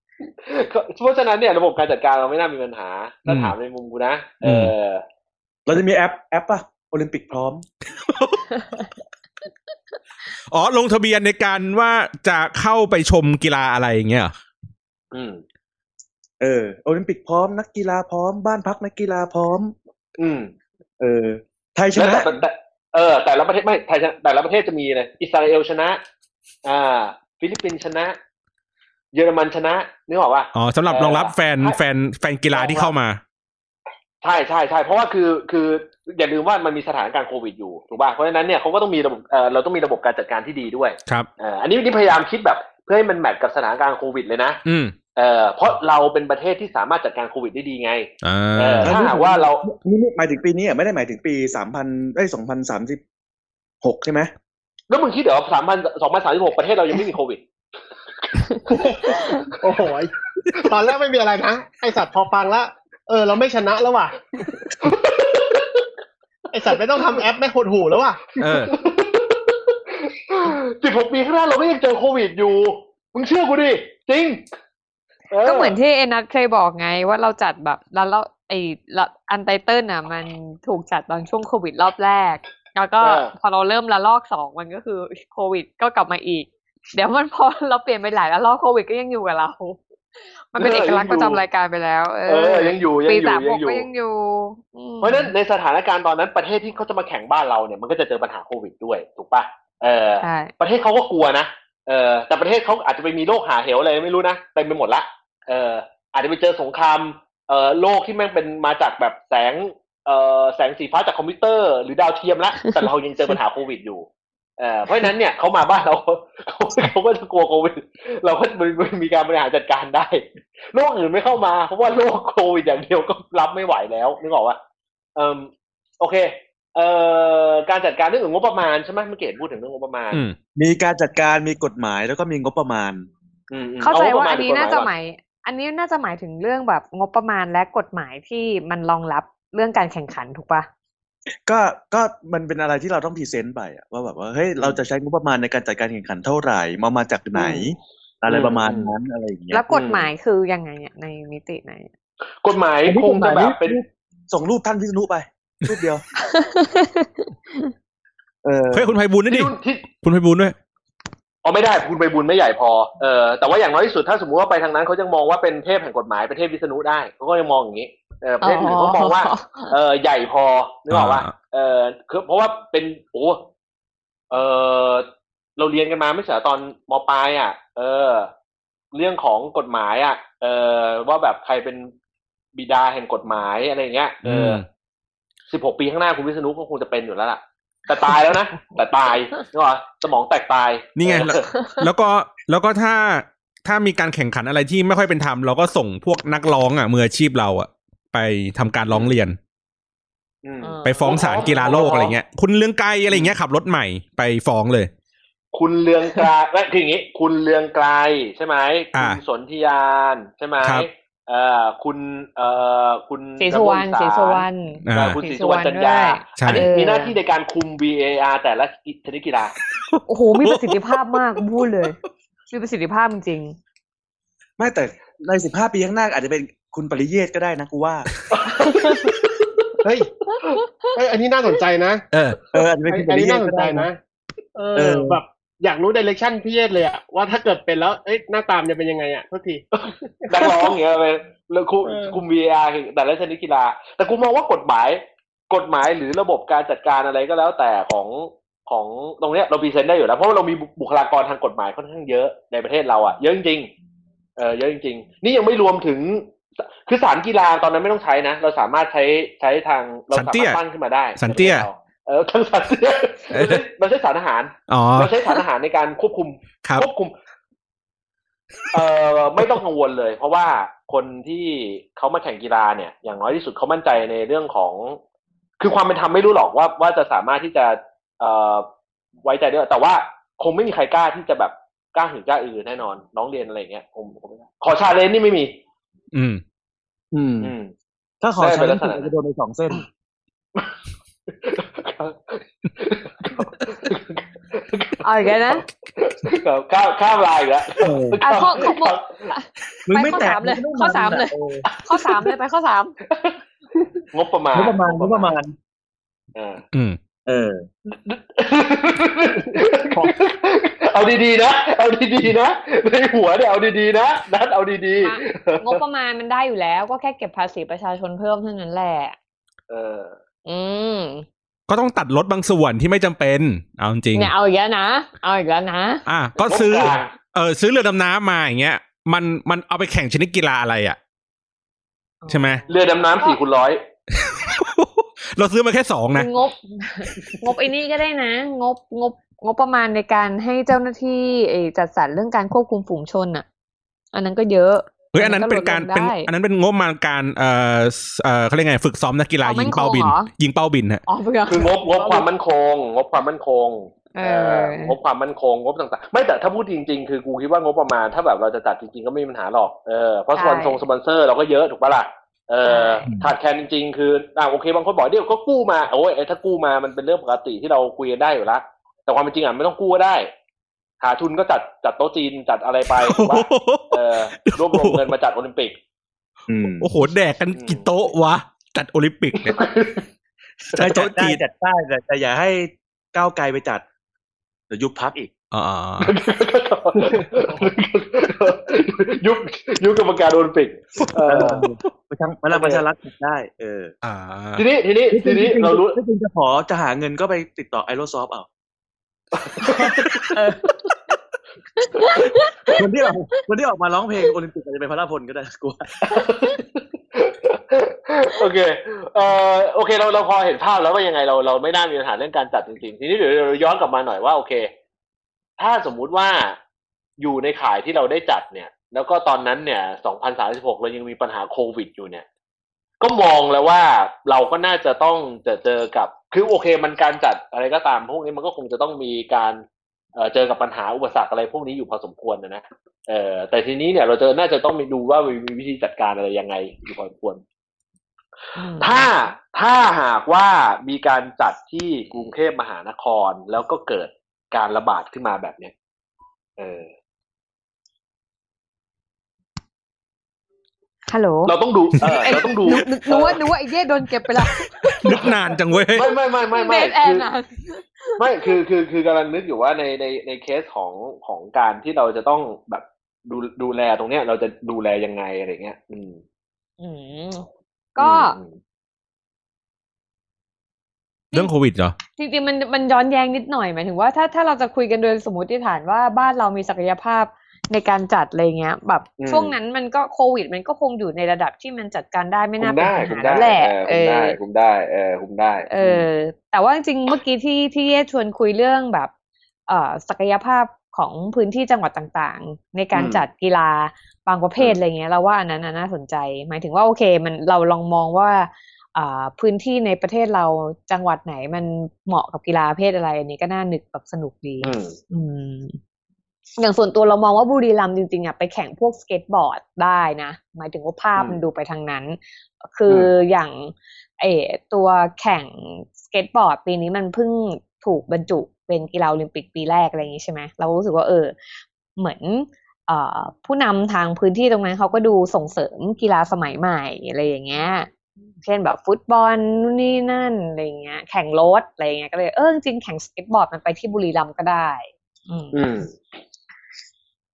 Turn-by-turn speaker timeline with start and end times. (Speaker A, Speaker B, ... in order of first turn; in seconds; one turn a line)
Speaker A: 0.4-5.0
Speaker B: 3.3-3.5
Speaker B: 4.4-4.7
Speaker C: 5.7-7.7
Speaker B: 8.0-8.4
Speaker B: 10.5-14.3
Speaker A: 15.1-15.4
Speaker C: 16.4-19.8
Speaker A: 20.2-20.5
Speaker C: 21.0-22.3
Speaker A: 21.9-26.0
Speaker A: 26.6-28.2
Speaker A: 29.1-31.8
Speaker B: 30.6-33.2
Speaker A: 32.5-32.9
Speaker A: 34.2-44.6
Speaker B: 44.6-45.0
Speaker A: 45.1-49.6
Speaker B: 48.2-48.9
Speaker C: 48.8-53.0
Speaker C: 53.8-54.3
Speaker A: 54.9-57.4
Speaker A: 58.2-58.6
Speaker D: 58.7-64.9
Speaker A: 64.8-65.9
Speaker D: 66.5-68.6
Speaker B: 68.4-68.7
Speaker A: 68.7-74.5
Speaker A: 75.3-75.8
Speaker E: 75.5-89.8
Speaker A: 83.0-83.3
Speaker E: 90.5-95.3
Speaker A: 90.6-91.4
Speaker A: 92.3-93.9
Speaker A: 95.0-114.1
Speaker E: 100.2-100.5
Speaker A: 114.6-124.6
Speaker A: 125.2-130.2
Speaker C: 130.6-133.1
Speaker A: 133.5-134.9
Speaker E: 133.8-140.7
Speaker C: 141.5-149.6
Speaker A: 147.4-147.6
Speaker A: 148.3-148.9
Speaker E: 149.5-151.9
Speaker A: 149.7-150.1
Speaker A: 152.4-153.8
Speaker C: 152.9-156.1
Speaker E: 156.2-157.7
Speaker C: 158.4-158.9
Speaker B: 158.7-160.6
Speaker A: 159.3-159.9
Speaker A: 161.4-173.5
Speaker E: 168.4-169.7
Speaker B: 170.9-171.3
Speaker A: 174.3-175.1
Speaker A: 175.6-178.3
Speaker A: 178.9-181.9
Speaker A: 182.6-184.6
Speaker B: 184.2-184.7
Speaker A: 185.5-191.6
Speaker B: 191.0-199.4
Speaker A: 200.4-202.2
Speaker E: 200.6-201.7
Speaker B: 200.8-204.9
Speaker A: 205.5-219.6
Speaker B: 208.9-209.2
Speaker B: 210.6-210.9
Speaker E: 213.4-217.2
Speaker B: 214.9-215.2
Speaker B: 216.4-216.7
Speaker B: 219.7-221.0
Speaker E: 220.1-222.0
Speaker E: 222.5-223.6
Speaker C: 224.6-228.1
Speaker A: 228.3-229.7
Speaker D: 229.8-230.1
Speaker E: 230.4-230.9
Speaker D: 230.9-232.1
Speaker B: 232.1-232.4
Speaker C: 232.5-233.9
Speaker D: 232.9-234.0
Speaker D: 234.6-240.7
Speaker C: 234.8-235.2
Speaker A: 239.8-253.7
Speaker D: 241.8-242.2
Speaker A: 254.4-267.1
Speaker B: 260.1-260.6
Speaker B: 261.2-261.7
Speaker B: 263.3-263.6
Speaker B: 264.7-265.2
Speaker A: 268.7-275.0
Speaker A: 275.6-278.7
Speaker A: 279.2-285.5
Speaker B: 286.1-286.4
Speaker C: 287.1-287.5
Speaker A: 287.4-287.7
Speaker C: 288.2-289.9
Speaker A: 288.4-289.1
Speaker A: 291.4-299.3
Speaker E: 295.0-295.6
Speaker C: 297.8-298.2
Speaker E: 298.2-301.3
Speaker C: 299.9-301.6
Speaker A: 301.7-302.3
Speaker E: 301.9-302.9
Speaker A: 303.1-303.4
Speaker A: 304.1-305.3
Speaker C: 304.5-305.6
Speaker A: 306.4-306.6
Speaker C: 307.3-307.6
Speaker A: 307.9-315.8
Speaker D: 309.4-310.1
Speaker E: 315.0-319.2
Speaker A: 319.7-320.2
Speaker E: 320.5-321.3
Speaker B: 321.7-324.3
Speaker E: 324.1-326.0
Speaker B: 326.1-331.0
Speaker A: 326.5-327.1
Speaker E: 332.2-333.4
Speaker B: 332.3-332.6
Speaker A: 332.7-333.8
Speaker B: 334.1-336.3
Speaker E: 336.1-343.5
Speaker E: 344.1-346.3
Speaker B: 345.1-351.0
Speaker E: 349.4-350.3
Speaker E: 351.1-352.3
Speaker A: 351.5-370.3
Speaker E: 354.1-354.9
Speaker E: 360.4-360.8
Speaker E: 362.6-363.1
Speaker A: 371.0-375.8
Speaker B: 372.9-375.1
Speaker C: 376.5-376.9
Speaker B: 376.8-379.6
Speaker A: 377.6-378.0
Speaker A: 379.4-380.0
Speaker B: 380.7-381.4
Speaker C: 380.8-383.8
Speaker C: 384.7-385.3
Speaker B: 385.5-386.2
Speaker A: 386.0-391.7
Speaker D: 387.1-387.7
Speaker C: 391.2-393.9
Speaker A: 392.5-392.8
Speaker B: 394.0-394.6
Speaker A: 394.6-396.0
Speaker C: 395.1-398.5
Speaker A: 399.4-400.9
Speaker E: 402.0-402.5
Speaker C: 402.7-406.0
Speaker A: 406.0-414.7
Speaker A: 415.6-416.6
Speaker A: 417.2-422.3
Speaker A: 423.0-429.6
Speaker A: 430.2-437.4
Speaker E: 438.6-439.1
Speaker A: 438.8-445.7
Speaker A: 446.6-446.9
Speaker E: 451.1-455.2
Speaker A: 451.4-453.4
Speaker C: 452.0-452.8
Speaker B: 454.6-456.1
Speaker A: 455.1-455.4
Speaker A: 455.9-457.3
Speaker E: 456.5-458.6
Speaker A: 458.2-466.2
Speaker E: 466.8-468.4
Speaker A: 468.0-468.6
Speaker B: 471.3-472.0
Speaker E: 472.2-484.4
Speaker A: 479.2-479.6
Speaker A: 482.6-486.1
Speaker E: 485.7-489.1
Speaker E: 489.7-505.8
Speaker A: 492.9-493.2
Speaker A: 504.6-505.0
Speaker E: 506.6-521.4
Speaker A: 511.2-511.4
Speaker E: 522.0-527.9
Speaker E: 528.4-535.6
Speaker A: 535.5-535.9